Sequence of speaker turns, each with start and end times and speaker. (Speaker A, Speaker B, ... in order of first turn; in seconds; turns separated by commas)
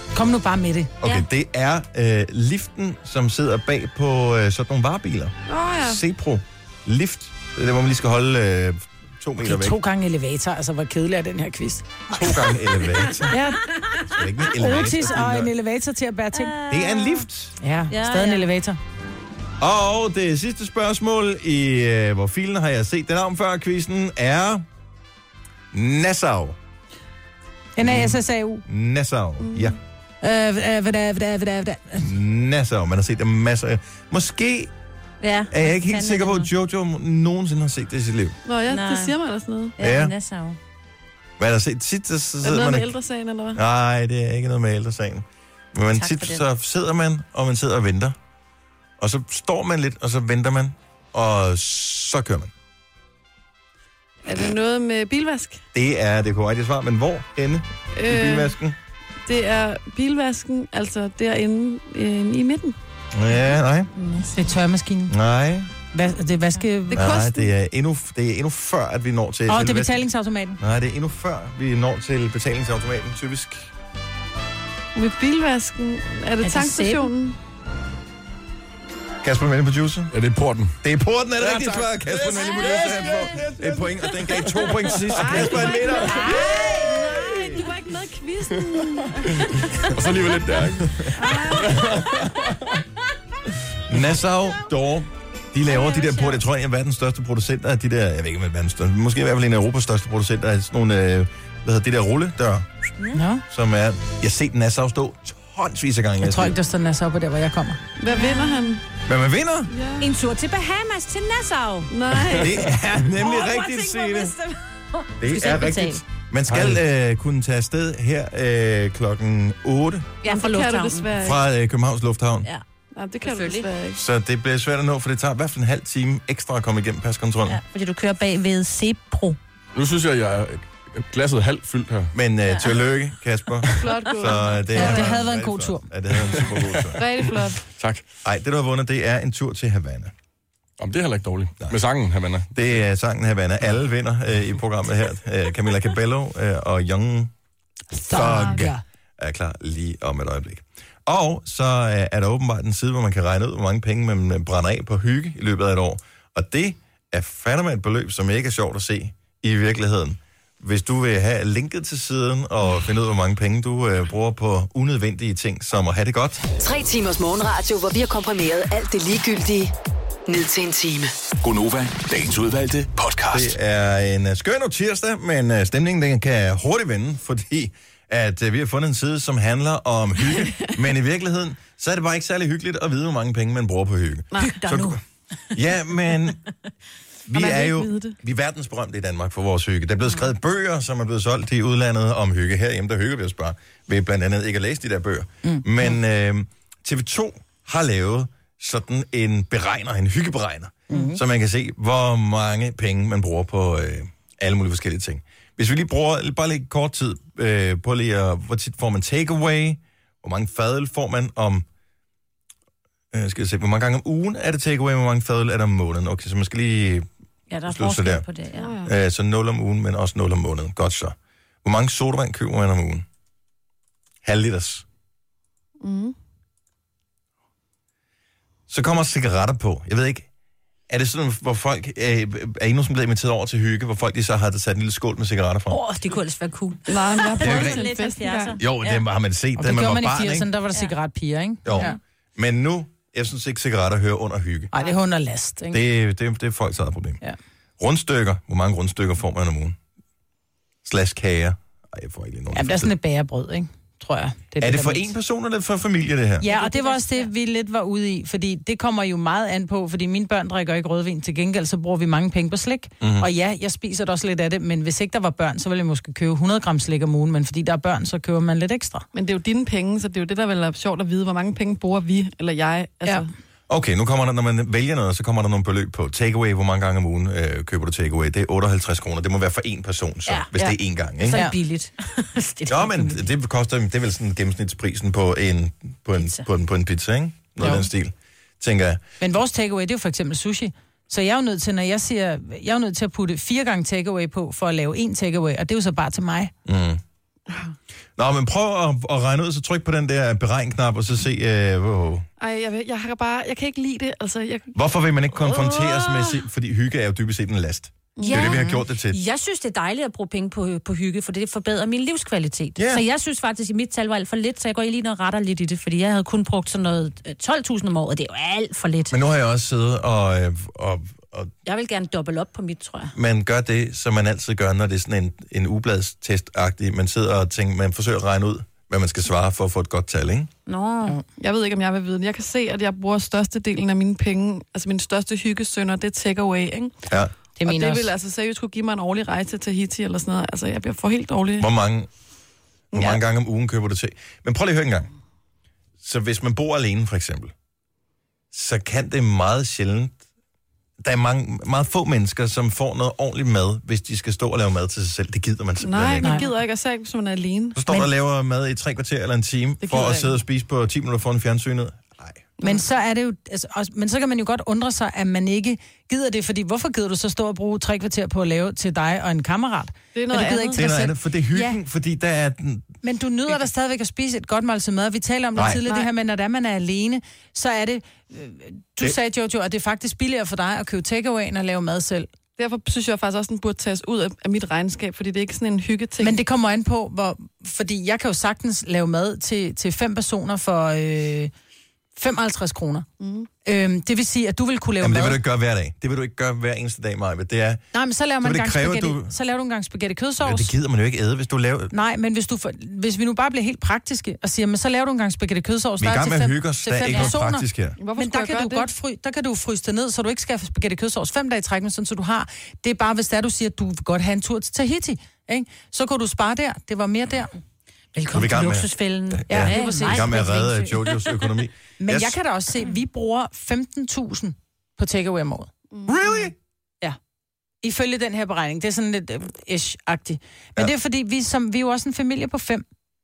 Speaker A: 0.1-0.9, Speaker B: 1.0-9.8, Speaker C: 5.5-6.0, Speaker A: 9.4-12.5, Speaker B: 12.1-13.4, Speaker D: 13.1-13.4, Speaker A: 13.3-13.6, Speaker B: 14.1-15.5, Speaker A: 14.5-16.5, Speaker D: 16.3-17.3, Speaker B: 16.7-17.6, Speaker A: 17.6-18.8, Speaker D: 17.9-18.5, Speaker B: 19.6-24.6, Speaker B: 25.7-26.6, Speaker A: 27.8-28.6, Speaker B: 27.8-29.8, Speaker C: 29.4-29.8, Speaker A: 30.2-32.1, Speaker B: 32.0-34.7, Speaker D: 35.2-36.5, Speaker B: 35.5-38.4, Speaker C: 38.4-39.7, Speaker D: 38.7-39.1, Speaker D: 39.8-40.6, Speaker B: 39.8-40.1, Speaker B: 41.4-42.9, Speaker C: 42.4-43.6, Speaker B: 43.5-48.1, Speaker D: 45.9-46.4, Speaker B: 49.0-52.5, Speaker C: 54.2-55.6, Speaker B: 55.7-58.8, Speaker C: 57.9-58.5, Speaker C: 59.2-62.8, Speaker B: 63.1-63.9, Speaker A: 64.2-65.1, Speaker B: 65.1-65.7, Speaker A: 65.9-67.1, Speaker C: 66.9-67.5, Speaker B: 66.9-70.0, Speaker A: 69.5-70.6, Speaker B: 70.6-73.7, Speaker C: 74.9-77.4, Speaker D: 76.4-77.1, Speaker B: 79.2-80.1, Speaker E: 80.1-80.7, Speaker B: 80.8-87.6, Speaker E: 81.4-85.4, Speaker C: 85.1-89.7, Speaker D: 85.6-87.6, Speaker E: 89.9-92.8, Speaker B: 90.8-92.0, Speaker C: 91.1-92.2, Speaker B: 93.9-102.7, Speaker D: 95.6-96.4, Speaker A: 103.1-103.4, Speaker B: 103.5-106.6, Speaker A: 106.2-107.8, Speaker C: 108.0-108.8, Speaker D: 108.1-108.7, Speaker B: 109.0-109.7, Speaker C: 109.7-110.0, Speaker D: 110.0-111.9, Speaker C: 111.9-112.6, Speaker B: 112.3-114.3, Speaker D: 113.0-116.0, Speaker B: 115.2-120.1, Speaker E: 116.5-116.8, Speaker D: 120.2-121.1, Speaker C: 120.2-121.4, Speaker B: 121.2-122.5, Speaker C: 122.9-124.0, Speaker D: 123.2-123.7, Speaker B: 123.9-127.6, Speaker D: 127.5-129.4, Speaker E: 129.7-132.1, Speaker B: 132.1-137.0, Speaker D: 132.5-132.8, Speaker C: 133.8-135.1, Speaker A: 134.7-135.9, Speaker E: 136.1-137.0, Speaker C: 136.9-137.6, Speaker E: 137.7-138.0, Speaker B: 138.2-140.1, Speaker E: 140.8-142.8, Speaker B: 142.5-147.3, Speaker A: 147.9-148.8, Speaker B: 148.1-166.5, Speaker F: 166.6-169.7, Speaker F: 170.3-171.1, Speaker G: 171.4-173.5, Speaker B: 173.3-185.0, Speaker D: 184.4-185.0, Speaker B: 185.5-186.4, Speaker B: 187.3-211.7, Speaker C: 187.3-188.1, Speaker A: 200.9-201.2, Speaker B: 213.1-217.1, Speaker D: 217.5-218.7, Speaker B: 217.7-218.2, Speaker C: 218.5-218.9, Speaker B: 218.8-223.0, Speaker B: 224.2-224.8, Speaker C: 225.8-226.1, Speaker B: 228.7-230.3, Speaker B: 230.9-235.8, Speaker D: 235.7-239.0, Speaker C: 236.9-238.6, Speaker B: 237.4-237.9, Speaker B: 238.6-240.5, Speaker A: 239.6-241.9, Speaker B: 241.6-244.7, Speaker D: 241.7-242.0, Speaker A: 244.7-245.8, Speaker B: 245.7-247.2, Speaker B: 247.8-249.8, Speaker B: 250.8-252.9, Speaker A: 252.5-255.1, Speaker B: 254.6-256.5, Speaker A: 256.4-269.0, Speaker D: 256.4-257.3, Speaker B: 263.0-263.3, Speaker C: 269.1-273.3, Speaker B: 273.7-281.4, Speaker D: 281.2-283.2, Speaker B: 282.7-289.0, Speaker D: 286.1-286.4, Speaker A: 287.6-287.9, Speaker A: 289.2-296.5, Speaker B: 296.6-297.0, Speaker B: 298.2-302.3, Speaker C: 302.4-304.7, Speaker B: 304.7-309.2, Speaker C: 308.2-308.6, Speaker D: 308.2-319.2, Speaker B: 312.8-313.0, Speaker B: 319.1-321.5, Speaker D: 321.6-323.1, Speaker B: 323.1-330.5, Speaker D: 330.6-331.2, Speaker C: 331.4-337.0, Speaker A: 337.6-338.1, Speaker C: 337.6-341.7, Speaker B: 341.6-342.1, Speaker B: 342.9-345.1, Speaker C: 342.9-343.2, Speaker B: 346.0-347.5, Speaker B: 348.5-350.2, Speaker B: 351.0-356.4, Speaker C: 355.8-357.8, Speaker B: 357.7-362.4, Speaker C: 359.8-360.3, Speaker A: 362.6-371.8, Speaker C: 370.1-370.9, Speaker B: 370.7-372.9, Speaker A: 373.0-382.3, Speaker B: 375.6-375.8, Speaker C: 382.6-386.4, Speaker A: 386.2-391.5, Speaker A: 392.1-393.1, Speaker C: 393.2-393.5, Speaker A: 393.6-395.4, Speaker B: 395.0-397.8, Speaker A: 397.9-400.7, Speaker B: 398.4-399.3, Speaker B: 400.4-401.9, Speaker A: 401.9-417.5, Speaker B: 406.0-408.0, Speaker C: 408.0-408.9, Speaker D: 418.1-420.5, Speaker B: 418.3-422.4, Speaker A: 419.5-420.9, Speaker A: 422.0-425.7, Speaker C: 425.9-426.2, Speaker B: 426.1-426.5, Speaker A: 427.8-432.8